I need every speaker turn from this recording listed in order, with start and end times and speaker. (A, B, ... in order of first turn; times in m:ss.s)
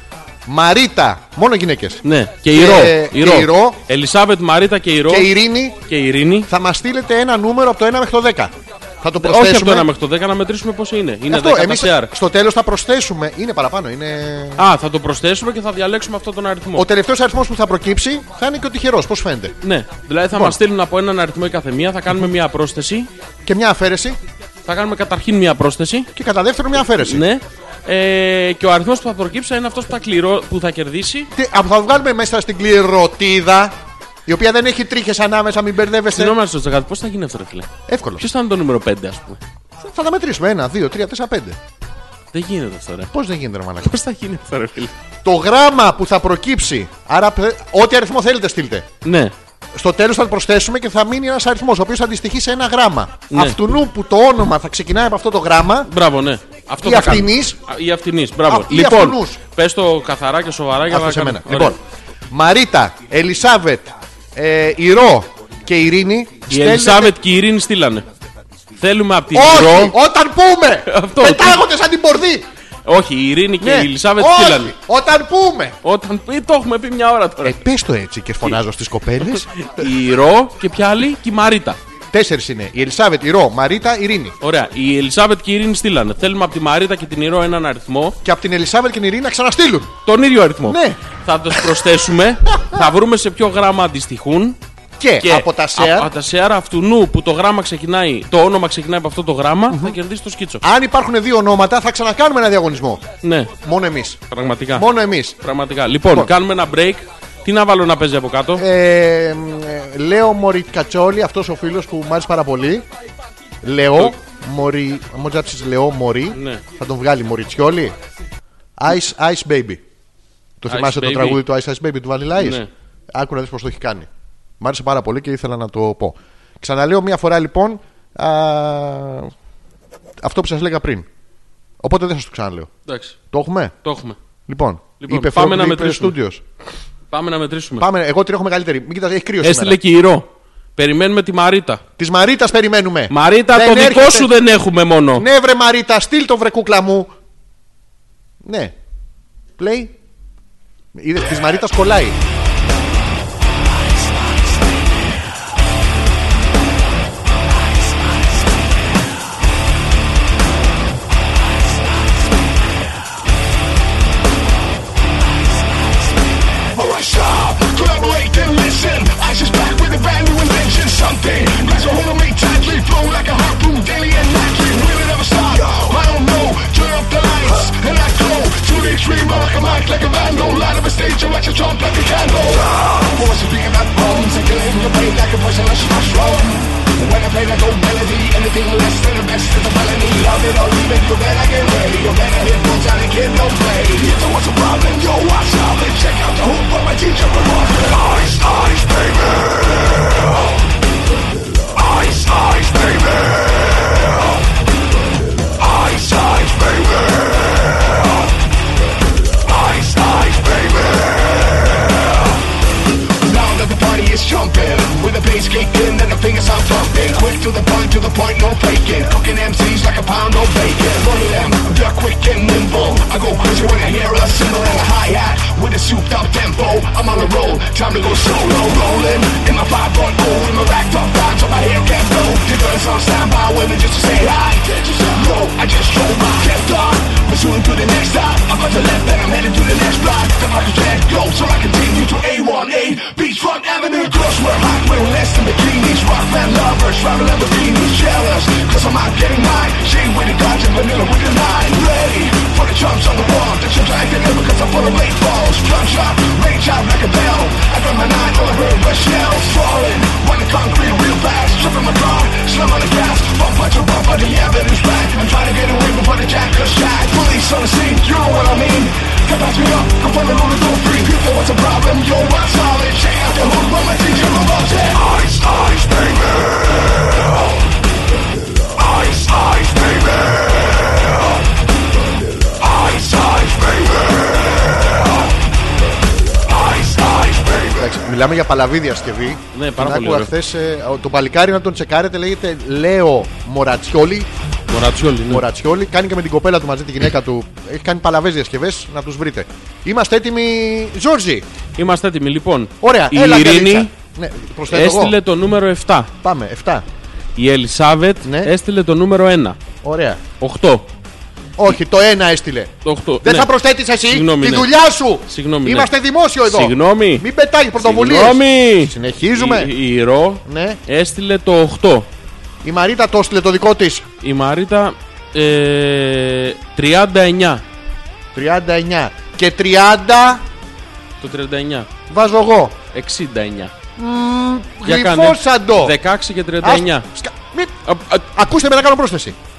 0:00.4-0:03.8 A
0:02.0-0:05.3 B
0:05.1-0:05.8 A
0:05.8-0:06.5 B
0:06.5-0:09.9 A
0:09.2-0:12.1 B
0:11.3-0:14.7 A
0:14.6-0:16.9 B
0:16.7-0:19.6 A
0:19.6-0:23.1 B
0:20.3-0:20.6 A
0:23.4-0:24.2 A
0:24.6-0:26.1 B
0:26.1-0:27.2 A
0:27.0-0:31.3 B
0:31.3-0:36.4 A
0:36.1-0:39.4 B
0:37.9-0:38.2 A
0:39.8-0:41.6 A
0:42.3-0:43.1 B
0:43.1-0:44.0 A
0:43.8-0:44.9 B
0:45.2-0:48.9 A
0:49.0-0:49.3 B
0:49.7-0:55.9 A
0:53.3-0:53.6 B
0:55.9-1:01.8 B
0:56.8-0:57.6 A
0:58.4-0:59.4 A
1:00.9-1:01.8 A
1:02.3-1:07.1 A
1:06.5-1:08.0 B
1:08.8-1:10.0 B
1:09.3-1:12.5 A
1:10.9-1:11.6 B
1:12.8-1:14.7 B
1:13.6-1:15.8 A
1:15.8-1:17.6 B
1:17.4-1:19.8 A
1:19.2-1:21.8 B
1:22.1-1:24.4 A
1:24.4-1:28.2 B
1:28.2-1:29.9 A
1:30.0-1:34.6 B
1:30.6-1:31.0 A
1:35.0-1:36.1 A
1:35.2-1:40.6 B
1:39.7-1:40.0 A
1:40.6-1:43.0 A
1:43.2-1:43.5 B
1:43.6-1:44.2 A
1:44.3-1:44.9 B
1:44.7-1:45.4 A
1:45.4-1:48.6 B
1:48.6-1:52.8 A
1:53.6-1:57.9 A
1:56.3-1:56.6 B
1:58.8-1:59.8 A
2:00.6-2:04.1 A
2:00.7-2:01.4 B
2:02.4-2:02.7 B
2:04.6-2:09.3 A
2:10.2-2:11.1 A
2:11.8-2:12.7 A
2:12.9-2:13.2 B
2:13.3-2:13.7 A
2:13.8-2:14.2 B
2:14.5-2:16.4 A
2:15.0-2:16.2 B
2:17.1-2:17.9 B
2:17.8-2:19.8 A
2:19.4-2:21.8 B
2:22.0-2:24.3 A
2:23.1-2:25.2 B
2:25.2-2:27.1 A
2:28.4-2:28.7 A
2:29.6-2:29.9 A
2:30.9-2:32.2 A
2:46.7-3:19.5 C
3:21.8-3:23.2 C
3:25.6-3:27.2 C
3:29.5-3:31.1 C
3:33.2-4:36.0 C
4:39.1-4:39.9 C
4:42.8-4:43.8 C
4:47.4-4:54.3 A
4:49.5-4:50.3 B
4:54.7-4:55.4 B
4:55.2-5:01.4 A
5:01.8-5:03.9 B
5:02.8-5:05.2 A
5:04.7-5:06.1 B
5:06.2-5:06.8 A
5:07.4-5:09.6 B
5:08.2-5:08.5 A
5:09.8-5:10.2 A
5:10.4-5:10.9 B
5:11.6-5:12.7 A
5:12.8-5:13.5 B
5:13.2-5:19.7 A
5:14.1-5:14.7 B
5:15.2-5:17.2 B
5:17.8-5:22.1 B
5:20.4-5:20.8 A
5:22.6-5:24.0 A
5:24.2-5:27.6 B
5:28.3-5:30.4 A
5:31.2-5:31.9 B
5:32.1-5:32.8 A
5:32.9-5:33.7 B
5:34.0-5:36.0 A
5:34.8-5:37.0 B
5:36.6-5:39.4 A